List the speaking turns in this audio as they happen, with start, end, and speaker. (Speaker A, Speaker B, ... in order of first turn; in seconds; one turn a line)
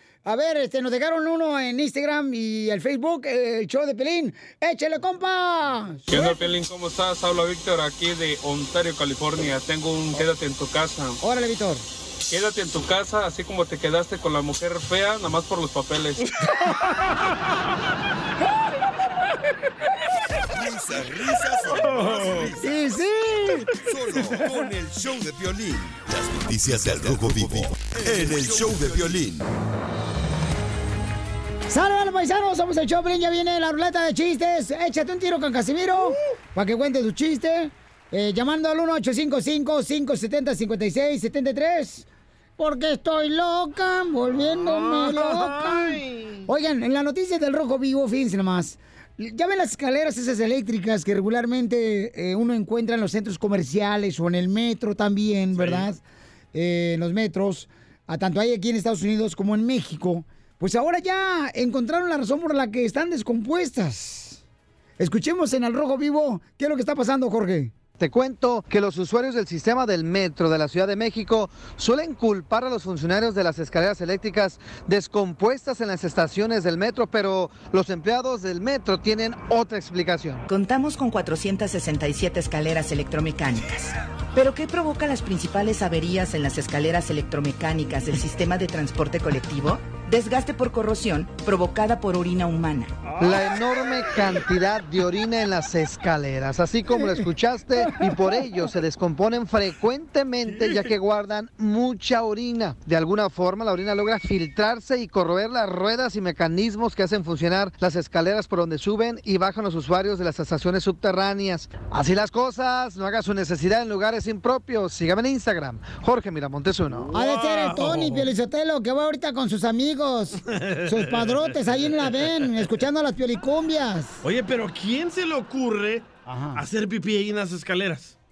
Speaker A: 0.2-6.4
Speaker B: 6.1-11.2
Speaker A: 11.2-11.8
Speaker B: 12.3-16.2
Speaker C: 20.5-22.5
Speaker D: 21.8-22.5
Speaker A: 22.6-23.7
Speaker C: 23.9-29.4
Speaker A: 31.7-42.1
Speaker A: 42.6-56.0
Speaker D: 44.6-46.3
Speaker D: 55.5-55.9
Speaker A: 56.5-64.4
Speaker A: 65.0-67.7
Speaker E: 68.0-80.4
Speaker F: 80.5-92.9
Speaker D: 93.1-93.4
Speaker E: 93.2-117.1
Speaker D: 117.1-118.3
Speaker A: 117.1-124.2
Speaker D: 120.5-122.6
Speaker D: 124.2-128.2
Speaker A: 126.3-126.6